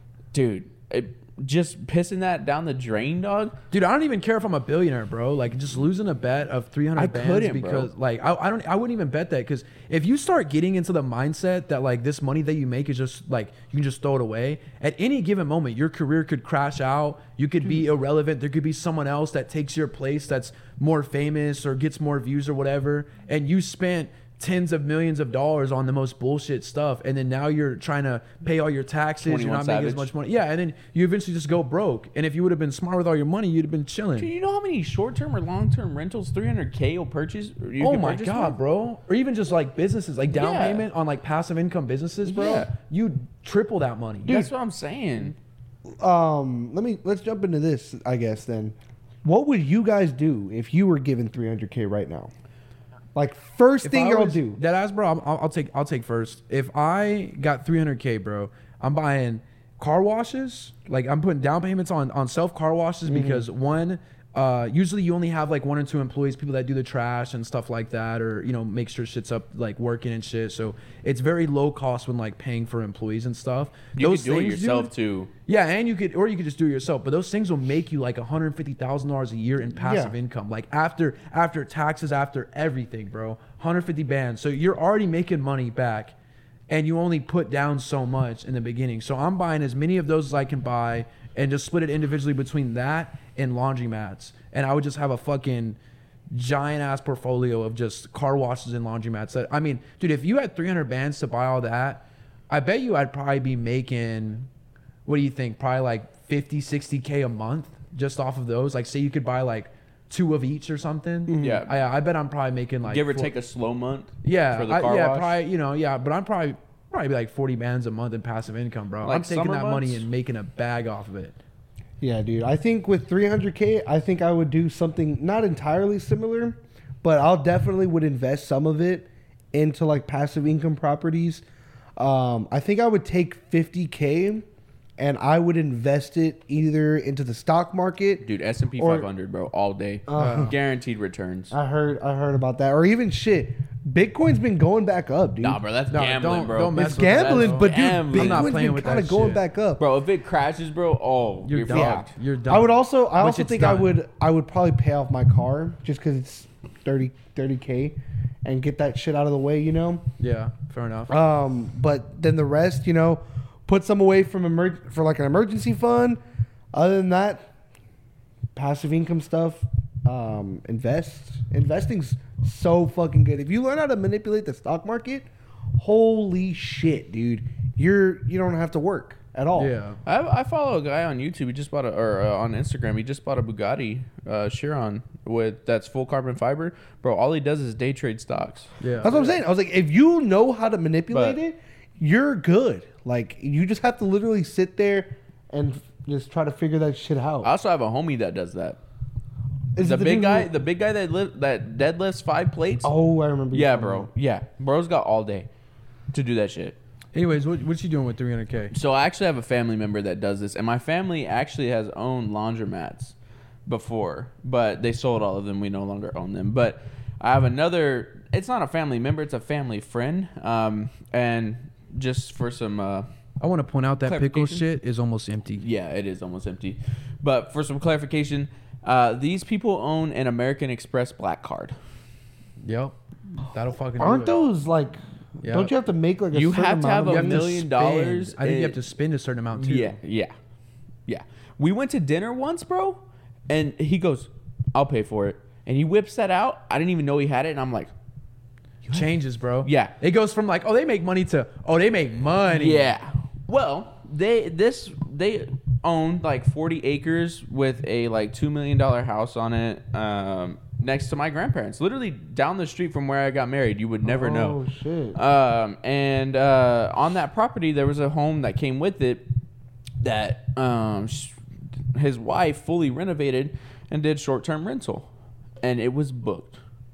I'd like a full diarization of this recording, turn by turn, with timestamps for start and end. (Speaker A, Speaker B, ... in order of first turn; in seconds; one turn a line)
Speaker A: 0.3-3.6
Speaker B: 3.7-34.3
Speaker A: 7.0-7.9
Speaker A: 29.2-30.1
Speaker A: 34.2-38.5
Speaker B: 37.8-44.5
Speaker A: 40.3-40.9
Speaker A: 42.2-42.7
Speaker A: 44.2-45.4
Speaker C: 46.0-52.3
Speaker C: 53.1-54.6
Speaker B: 53.8-74.9
Speaker C: 63.1-63.5
Speaker A: 74.0-75.3
Speaker B: 75.5-86.1
Speaker C: 79.8-80.2
Speaker B: 86.7-95.8
Speaker B: 96.3-104.5
Speaker B: 105.1-113.3
Speaker C: 111.3-111.6
Speaker A: 111.4-111.7
Speaker A: 112.9-115.3
Speaker B: 114.2-121.4
Speaker A: 119.0-120.0
Speaker C: 122.0-131.4
Speaker C: 132.0-134.4
Speaker C: 135.0-138.2
Speaker A: 138.2-141.5
Speaker C: 138.8-139.1
Speaker C: 140.1-140.5
Speaker B: 140.1-140.5
Speaker C: 141.5-145.6
Speaker A: 145.4-148.5
Speaker B: 145.9-149.4
Speaker C: 146.8-149.8
Speaker A: 149.8-152.1
Speaker B: 151.5-153.9
Speaker C: 151.7-160.1
Speaker B: 160.2-161.2
Speaker C: 161.1-166.2
Speaker C: 166.7-167.5
Speaker C: 168.6-179.7
Speaker B: 179.6-180.0
Speaker A: 180.1-188.7
Speaker B: 188.8-189.4
Speaker C: 189.0-197.5
Speaker A: 191.1-191.4
Speaker A: 197.4-198.8
Speaker C: 199.8-200.5
Speaker A: 199.8-202.9
Speaker C: 202.8-204.1
Speaker A: 203.5-205.5
Speaker A: 206.1-206.8
Speaker B: 207.1-208.7
Speaker A: 208.7-213.1
Speaker A: 213.7-223.1
Speaker B: 223.4-225.6
Speaker A: 224.1-224.6
Speaker A: 225.6-231.8
Speaker B: 232.6-234.4
Speaker C: 234.0-237.5
Speaker B: 235.4-235.7
Speaker A: 236.3-238.8
Speaker B: 237.1-240.0
Speaker A: 239.5-240.3
Speaker A: 241.1-247.9
Speaker B: 248.9-252.9
Speaker A: 249.6-249.9
Speaker A: 252.5-264.6
Speaker C: 264.1-265.2
Speaker A: 265.1-269.2
Speaker A: 270.0-271.4
Speaker A: 271.9-275.1
Speaker A: 275.6-276.6